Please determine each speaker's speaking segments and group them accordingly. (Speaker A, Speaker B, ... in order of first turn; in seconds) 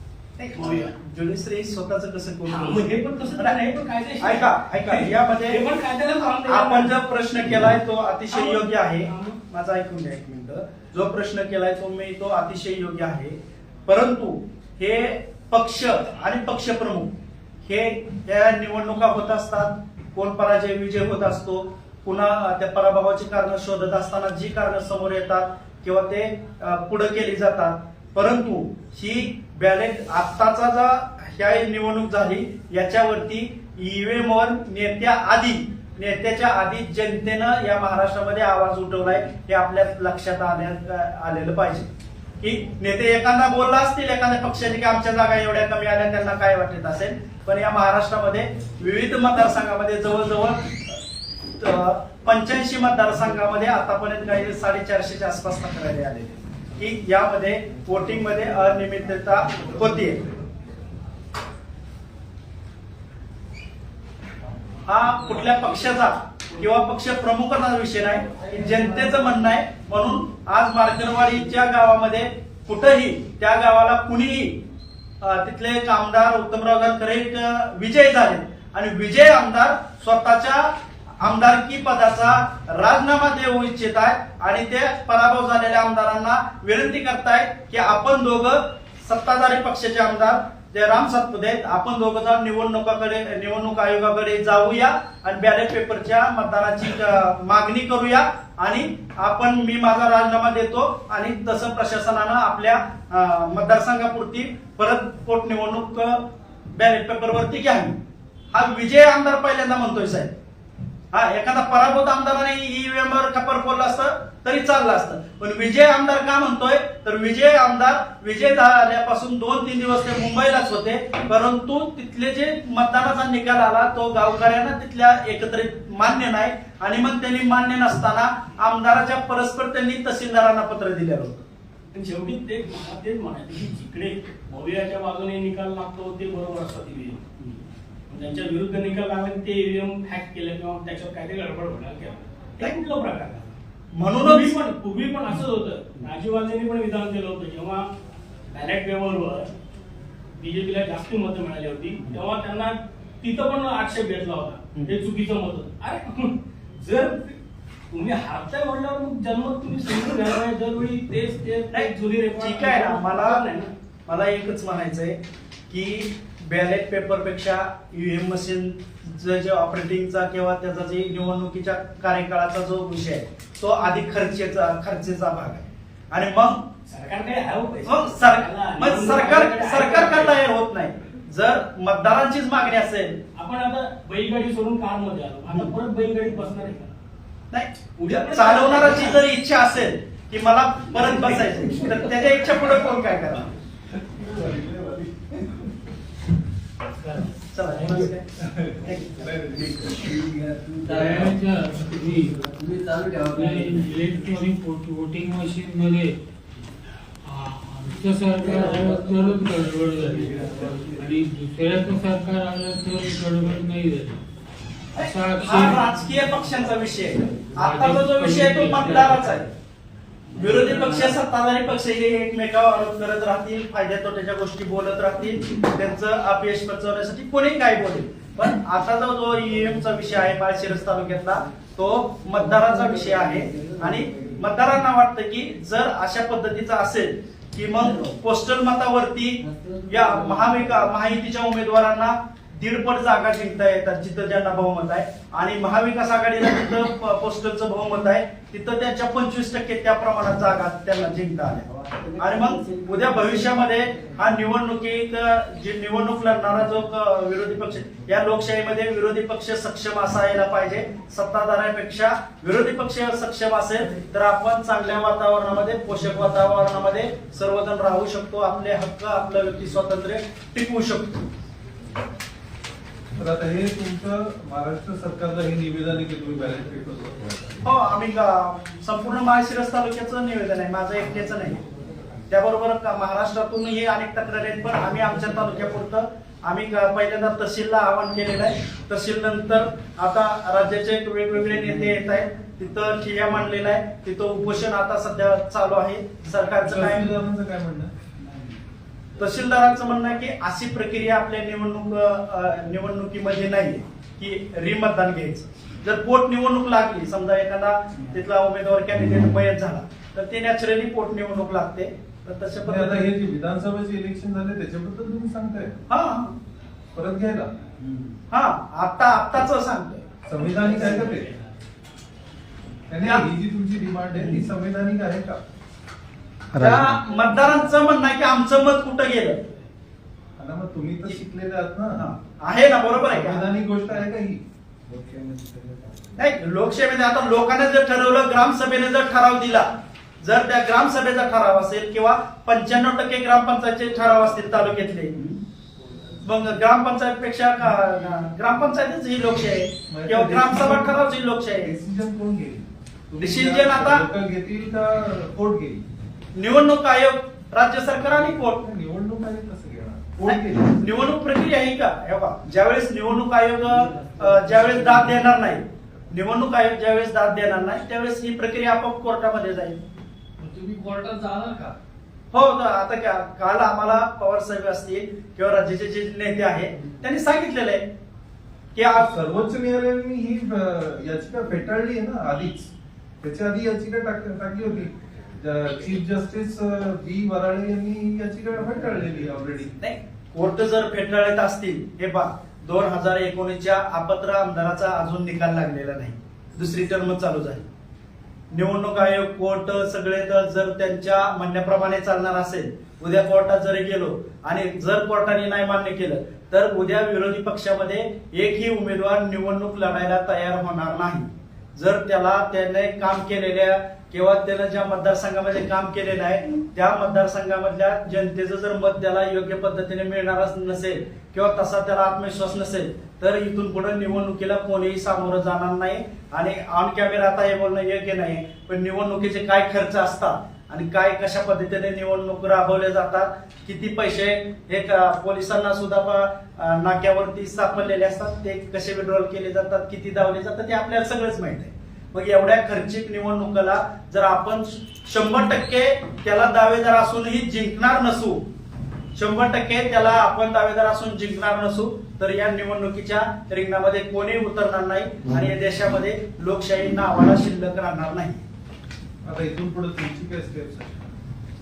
Speaker A: 0.4-3.6, 4.2-5.6, 6.4-41.9, 42.4-51.0, 51.6-60.3, 64.8-74.6, 75.2-108.0, 108.5-110.3, 111.1-131.4, 143.9-144.5, 161.7-163.4, 164.1-165.2, 165.7-176.7, 177.8-183.2, 187.5-193.5, 197.5-198.2, 214.9-219.5, 220.3-271.2, 277.6-281.6, 282.3-297.1, 299.2-313.1, 315.9-316.3, 318.3-320.1, 320.6-321.0, 324.2-324.4, 326.5-329.4, 331.9-333.5, 336.2-339.7, 340.2-345.1, 346.2-351.7, 353.2-354.0, 356.4-358.6, 360.2-369.8, 372.3-377.8, 378.7-379.1, 389.8-397.7, 398.5-448.4, 449.1-458.4
Speaker B: 0.5-0.9, 2.5-6.9, 8.3-9.4, 68.6-69.1, 131.9-137.3, 138.1-143.6, 144.2-147.8, 148.5-149.5, 150.4-157.4, 157.9-163.7, 176.9-180.4, 183.3-186.9, 188.0-189.2, 320.6-321.5
Speaker C: 193.9-195.7, 198.4-199.9, 273.1-277.7, 296.6-297.9, 312.6-315.8, 316.9-317.5, 320.2-321.3, 322.9-325.4, 330.4-332.1, 333.0-334.4, 349.9-355.8, 358.4-360.8, 378.9-389.8, 459.2-461.1
Speaker D: 196.8-198.1, 200.8-202.4, 203.3-206.2, 207.2-214.2, 215.0-215.9, 217.5-219.5, 220.3-221.2
Speaker E: 198.8-201.4, 202.2-204.0, 208.4-209.3, 210.0-211.1, 232.3-234.5, 237.8-238.1, 239.4-240.9, 251.7-254.1, 317.8-318.1, 326.6-326.9, 334.9-336.1, 363.7-365.2, 370.4-371.8